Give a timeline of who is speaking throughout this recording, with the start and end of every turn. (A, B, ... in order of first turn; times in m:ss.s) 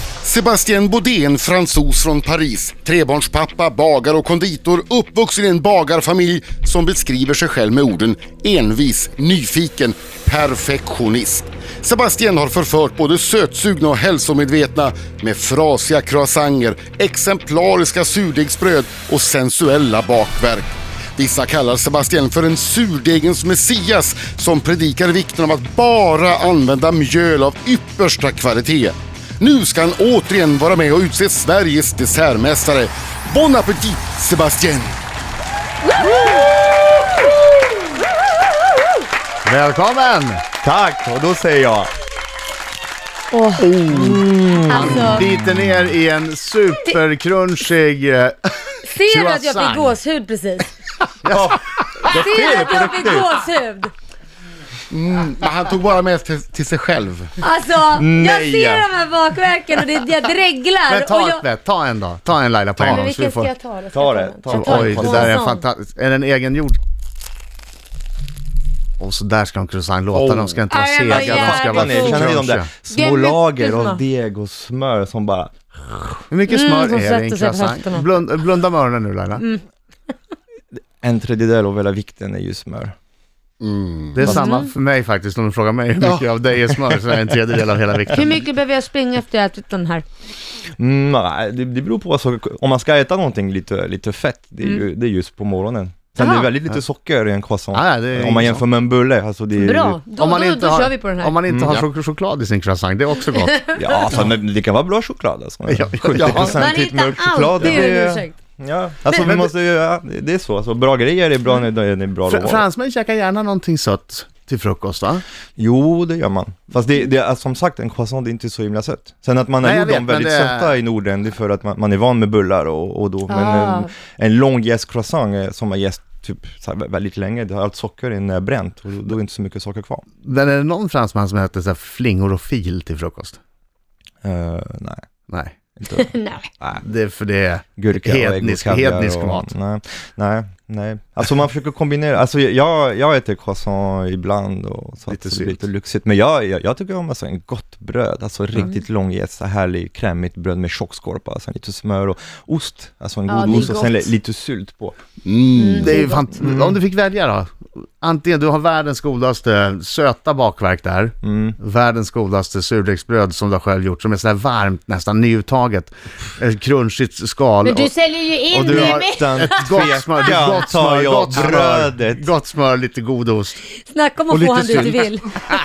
0:00.2-0:35.0 A
0:39.4-0:40.4 B
0:40.6-0:41.9 C
0:43.3-0:45.2 D
0:43.6-0:50.0 B
0:43.9-0:45.1 C
0:48.8-0:50.7 D
0:51.2-0:51.6 B
0:51.3-0:53.3 C
0:52.1-0:53.9 D
0:54.9-0:57.3 A
0:57.4-1:01.4 D
0:57.9-0:58.9 C
1:00.9-1:03.5 B
1:02.8-1:05.6 D
1:03.9-1:05.3 C
1:04.5-1:06.8 B
1:09.0-1:12.7 B
1:10.1-1:16.2 C
1:10.7-1:12.3 D
1:12.9-1:14.0 D
1:16.3-1:19.4 B
1:16.5-1:18.0 D
1:21.0-1:22.9 C
1:23.6-1:24.4 A
1:24.1-1:28.4 B
1:24.2-1:24.7 D
1:28.1-1:30.0 D
1:30.8-1:40.0 C
1:36.2-1:36.5 D
1:37.7-1:38.6 B
1:39.6-1:41.4 D
1:40.2-1:43.6 B
1:41.5-1:41.8 C
1:43.3-1:43.9 D
1:43.7-1:52.6 C
1:45.7-1:46.6 B
1:46.1-1:46.5 A
1:46.5-1:48.3 D
1:49.1-1:49.3 D
1:52.3-1:55.2 B
1:55.6-2:10.0 C
1:59.6-2:00.8 B
2:03.3-2:03.9 D
2:10.2-2:13.4 B
2:14.2-2:15.0 C
2:15.8-2:16.1 C
2:15.9-2:16.5 D
2:16.8-2:19.5 B
2:17.8-2:35.0 C
2:25.1-2:25.6 B
2:33.3-2:34.1 D
2:35.2-2:35.9 A
2:35.5-2:36.3 D
2:35.7-2:47.9 B
2:36.4-2:36.8 C
2:41.2-2:41.6 C
2:47.6-2:49.9 D
2:48.5-2:53.6 B
2:48.5-2:52.2 C
2:53.9-2:55.3 D
2:54.6-2:54.9 A